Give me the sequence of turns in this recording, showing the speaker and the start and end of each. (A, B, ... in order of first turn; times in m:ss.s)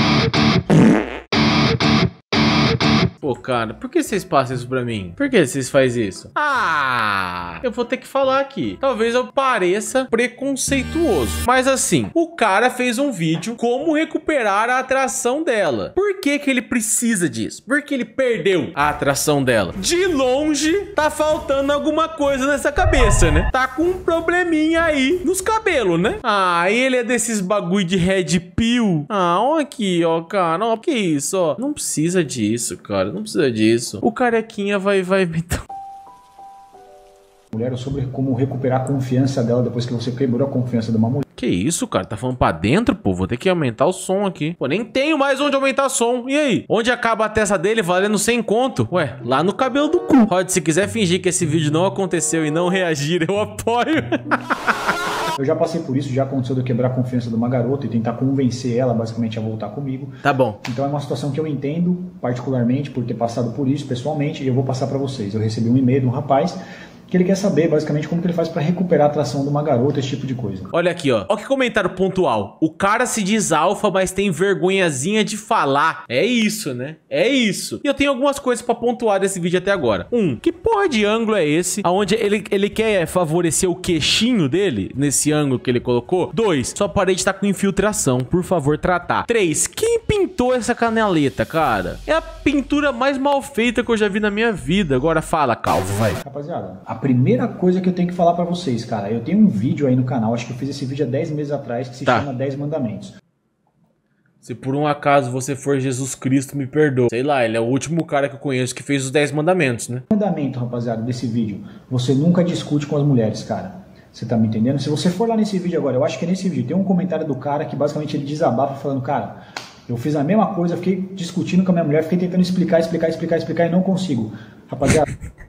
0:03.2-0:35.6 A
0:37.5-0:41.2 B
0:41.4-0:54.7 A
0:55.3-1:06.6 B
1:00.2-1:00.6 A
1:07.1-1:10.7 B
1:10.7-1:36.2 A
1:36.2-1:43.1 B
1:44.4-1:50.0 A
1:50.1-2:05.0 B